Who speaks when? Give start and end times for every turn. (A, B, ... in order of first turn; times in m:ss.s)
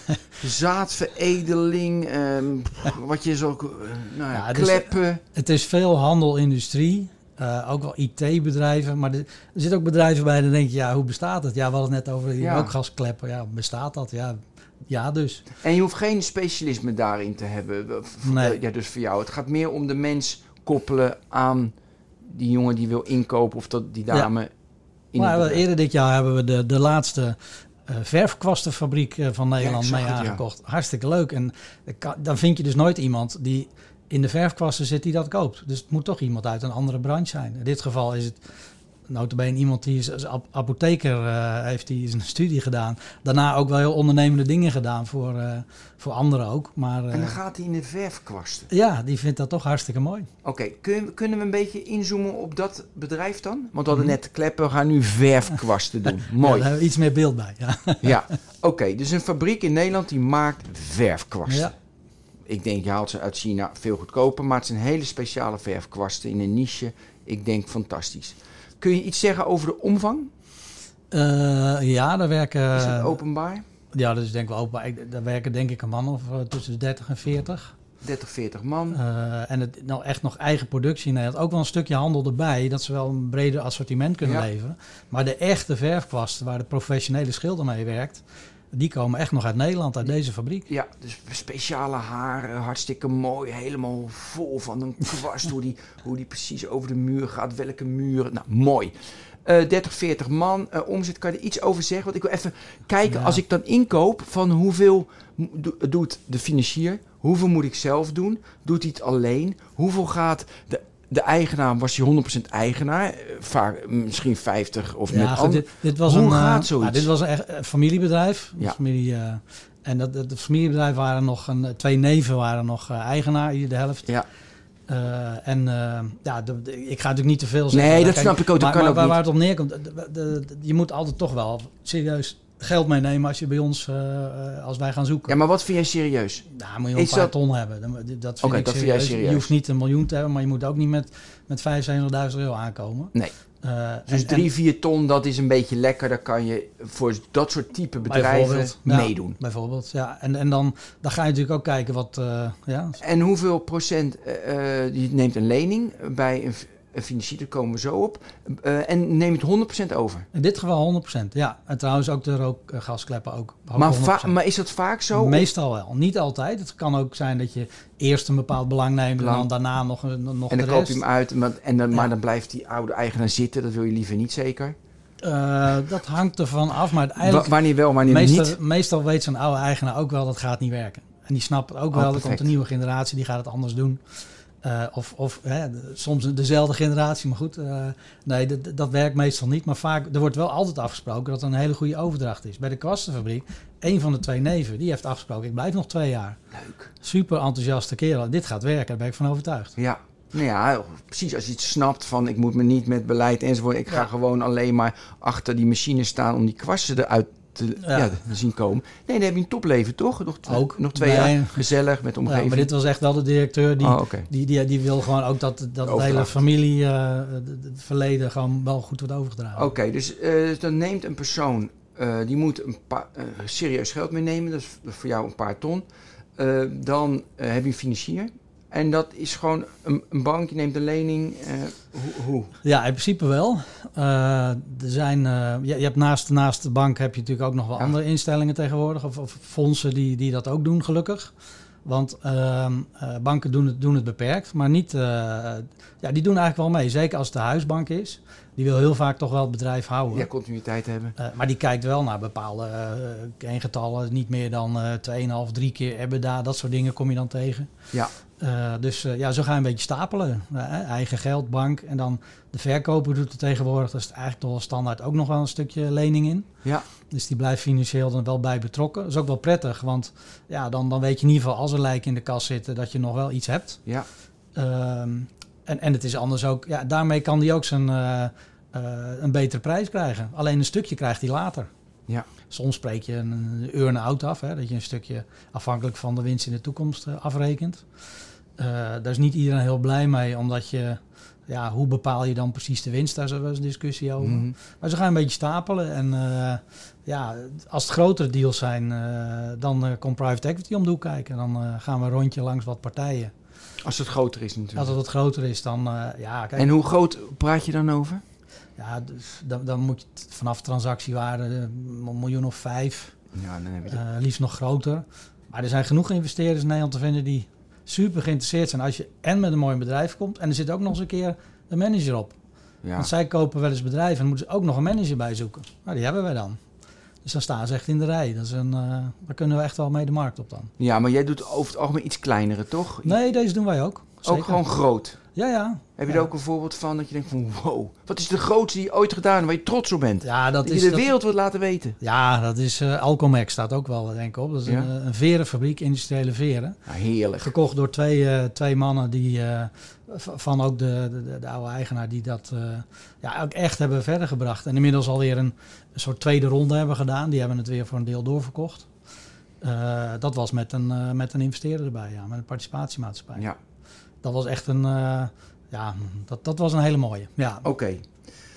0:00.3-0:05.2 A
0:04.3-0:15.4 B
0:12.4-0:12.7 A
0:15.6-0:24.5 A
0:18.2-0:18.6 B
0:25.1-0:25.6 A
0:25.2-0:38.4 B
0:29.6-0:30.4 A
0:39.1-0:47.4 B
0:47.1-0:48.7 A
0:48.7-0:50.3 B
0:50.4-0:56.7 A
0:56.4-0:58.2 B
0:58.0-1:01.7 A
1:01.5-1:01.7 B
1:02.5-1:10.3 A
1:11.1-1:13.2 B
1:12.8-1:13.6 A
1:13.9-1:17.8 B
1:18.0-1:19.0 A
1:18.9-1:30.7 B
1:30.7-1:57.1 A
1:43.1-1:43.4 B
1:55.1-2:04.1 B
2:04.9-2:15.4 B
2:07.7-2:09.2 A
2:15.3-2:17.3 A
2:16.5-2:24.5 B
2:18.4-2:19.5 A
2:24.1-2:29.4 A
2:28.1-2:33.0 B
2:33.0-2:40.3 A
2:40.3-2:44.4 B
2:43.8-2:45.5 A
2:45.1-2:51.0 B
2:49.2-2:49.5 A
2:50.5-2:54.8 A
2:55.2-3:04.0 B
2:57.2-2:58.6 A
3:01.9-3:02.5 A
3:04.6-3:16.4 B
3:16.5-3:16.9 A
3:17.0-3:19.8 B
3:19.8-3:32.7 A
3:27.8-3:28.2 B
3:30.5-3:31.6 B
3:32.2-3:39.7 B
3:33.8-3:34.3 A
3:35.8-3:36.4 A
3:39.6-3:45.8 A
3:46.4-3:52.5 A
3:52.6-4:01.3 B
4:01.8-4:10.3 B
4:10.1-4:11.2 A
4:11.2-4:17.7 B
4:18.4-4:26.5 B
4:27.1-4:33.8 B
4:34.6-4:41.7 B
4:42.5-4:47.8 B
4:48.6-5:03.3 B
4:54.2-4:54.6 A
5:03.8-5:05.0 A
5:04.8-5:06.7 B
5:06.6-5:08.2 A
5:08.8-5:13.2 B
5:13.3-5:14.0 A
5:13.9-5:22.4 B
5:22.8-5:23.1 A
5:23.0-5:26.6 B
5:27.2-5:30.7 B
5:30.8-5:33.1 A
5:33.0-5:34.6 B
5:34.2-5:35.2 A
5:35.4-5:36.3 B
5:36.0-5:42.0 A
5:40.2-5:41.1 B
5:42.0-5:46.8 B
5:46.9-5:47.5 A
5:47.4-5:58.9 B
5:59.6-6:03.5 B
6:04.2-6:07.7 B
6:07.6-6:08.1 A